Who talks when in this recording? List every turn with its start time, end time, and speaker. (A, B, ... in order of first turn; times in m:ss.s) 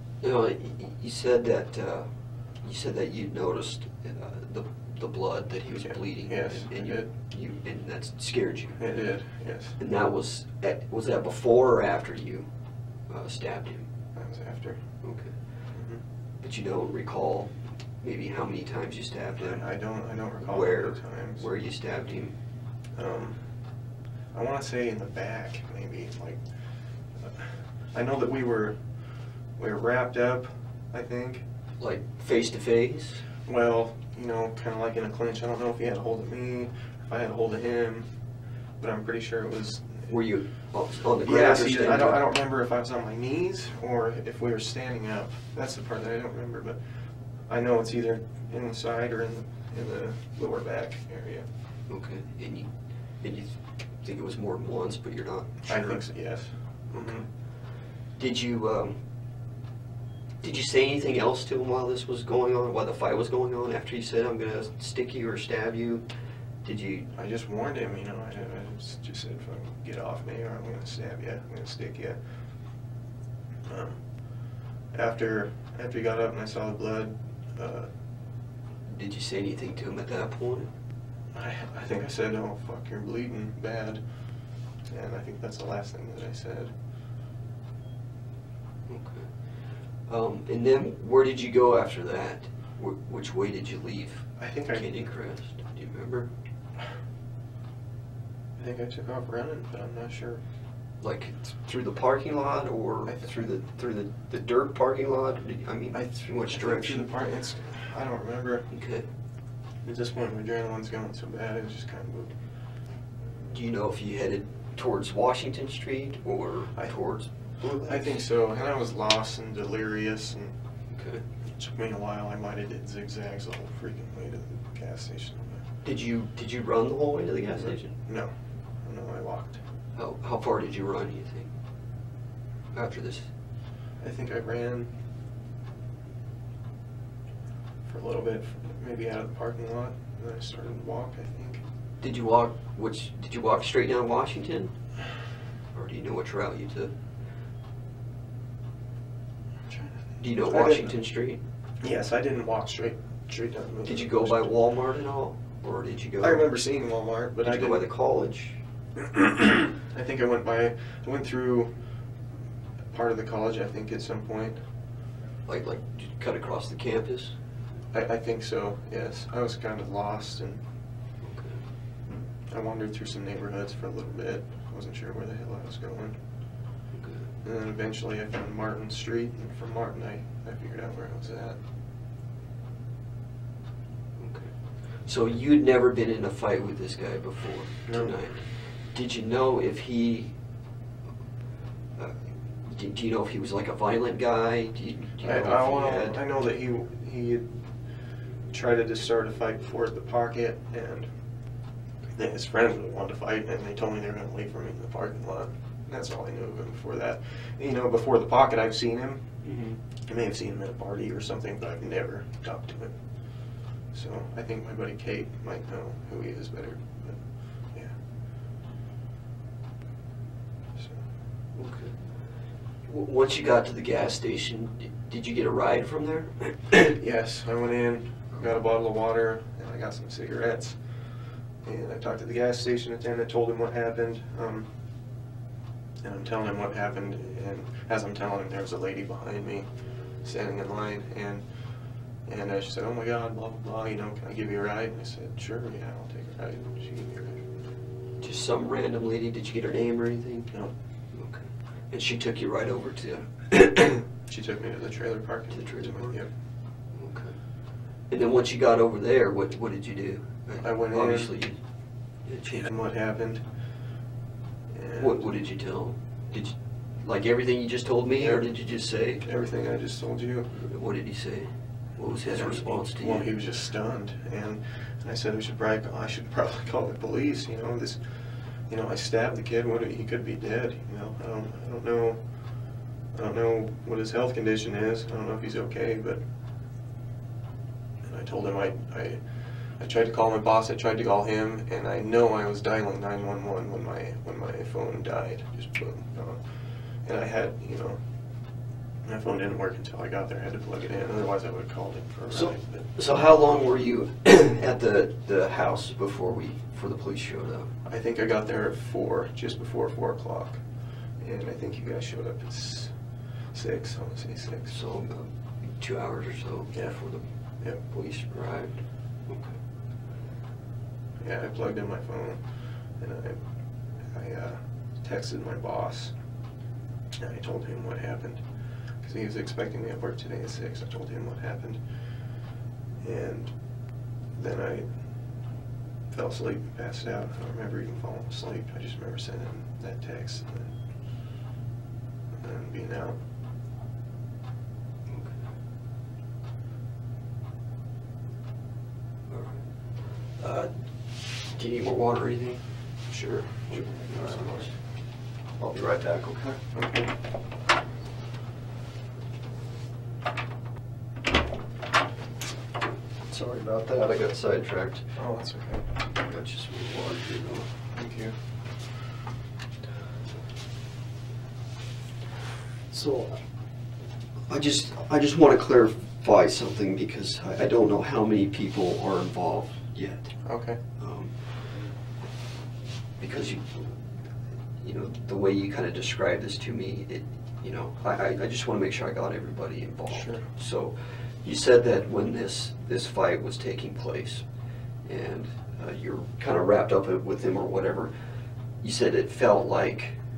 0:00.2-0:08.8 A
0:05.8-0:07.1 B
0:08.8-0:09.8 B
0:09.8-0:12.5 A
0:13.1-0:13.9 A
0:14.1-0:14.8 B
0:15.0-0:15.4 A
0:15.7-0:16.0 B
0:16.4-0:19.6 A
0:19.4-0:21.4 B
0:20.4-0:22.3 A
0:22.9-0:23.4 B
0:24.3-0:26.4 B
0:27.2-0:28.7 B
0:29.6-0:31.4 B
0:31.8-0:33.2 A
0:33.4-0:38.1 B
0:38.8-0:40.1 B
0:40.1-0:42.2 A
0:41.2-0:46.8 B
0:47.5-0:51.4 B
0:51.9-0:56.0 A
0:55.7-0:57.2 B
0:58.2-0:59.0 A
1:00.4-1:06.0 A
1:06.6-1:07.1 A
1:07.1-1:12.2 B
1:13.7-1:14.0 B
1:14.9-1:17.9 B
1:18.9-1:20.7 A
1:21.3-1:24.1 B
1:24.8-1:26.7 B
1:28.9-1:29.5 A
1:30.0-1:36.3 A
1:34.4-1:34.9 B
1:38.6-1:40.4 B
1:41.0-1:47.1 A
1:45.9-1:48.7 B
1:48.7-1:49.0 A
1:49.8-1:52.3 B
1:53.5-1:58.2 A
1:57.8-2:00.5 B
2:00.9-2:01.2 A
2:01.5-2:05.6 B
2:05.8-2:07.9 A
2:07.6-2:08.3 B
2:08.8-2:09.6 B
2:09.9-2:11.5 A
2:12.7-2:13.3 A
2:14.0-2:14.9 B
2:17.8-2:21.6 B
2:22.0-2:24.7 A
2:25.7-2:26.9 A
2:30.2-2:31.4 A
2:30.4-2:30.9 B
2:31.8-2:34.5 B
2:33.8-2:36.5 A
2:36.2-2:37.8 B
2:37.4-2:38.6 A
2:39.0-2:41.8 B
2:42.9-2:44.6 B
2:45.5-2:47.4 A
2:47.9-2:50.6 B
2:51.2-2:51.6 A
2:52.5-2:56.2 B
2:56.9-2:57.3 A
2:57.4-3:01.6 B
3:04.2-3:10.3 A
3:07.9-3:08.1 B
3:12.0-3:16.2 A
3:15.2-3:17.6 B
3:18.5-3:21.1 B
3:22.1-3:29.3 B
3:29.4-3:29.8 A
3:30.1-3:33.0 B
3:33.9-3:38.0 B
3:41.5-3:42.0 A
3:42.8-3:47.0 A
3:47.0-3:50.8 B
3:51.6-3:54.7 B
3:56.0-3:59.7 B
4:00.2-4:01.4 B
4:02.2-4:07.5 B
4:08.2-4:10.5 A
4:11.1-4:14.0 A
4:14.3-4:16.3 B
4:15.5-4:16.2 A
4:16.9-4:17.4 A
4:18.1-4:21.6 A
4:20.6-4:21.3 B
4:22.2-4:22.7 A
4:22.5-4:23.4 B
4:24.7-4:25.2 B
4:25.0-4:29.2 A
4:28.2-4:28.5 B
4:29.2-4:30.5 B
4:30.5-4:33.3 A
4:32.1-4:42.2 B
4:43.1-4:46.2 B
4:48.0-4:49.2 B
4:49.8-4:58.0 B
4:59.0-5:02.8 B
5:02.3-5:07.7 A
5:07.8-5:10.6 B
5:11.2-5:13.0 B
5:13.5-5:14.8 B
5:14.7-5:17.2 A
5:17.8-5:19.6 A
5:21.2-5:23.4 B
5:24.1-5:26.1 B
5:27.2-5:28.4 B
5:29.0-5:31.8 B
5:33.0-5:33.5 B
5:34.3-5:35.0 B
5:36.1-5:40.7 B
5:42.4-5:43.1 B
5:45.1-5:45.5 A
5:49.3-5:49.7 A
5:50.2-5:52.7 A
5:53.1-5:54.7 B
5:53.7-5:54.9 A
5:55.5-5:56.6 A
5:56.7-5:57.1 B
6:03.3-6:05.1 A
6:05.1-6:05.8 B
6:06.1-6:07.7 A
6:07.9-6:08.3 B
6:12.9-6:13.4 A
6:14.5-6:20.4 A
6:20.4-6:20.8 B
6:21.0-6:21.8 A
6:23.2-6:24.1 A
6:24.8-6:34.4 A
6:30.1-6:30.4 B
6:35.0-6:38.1 A
6:38.8-6:40.2 A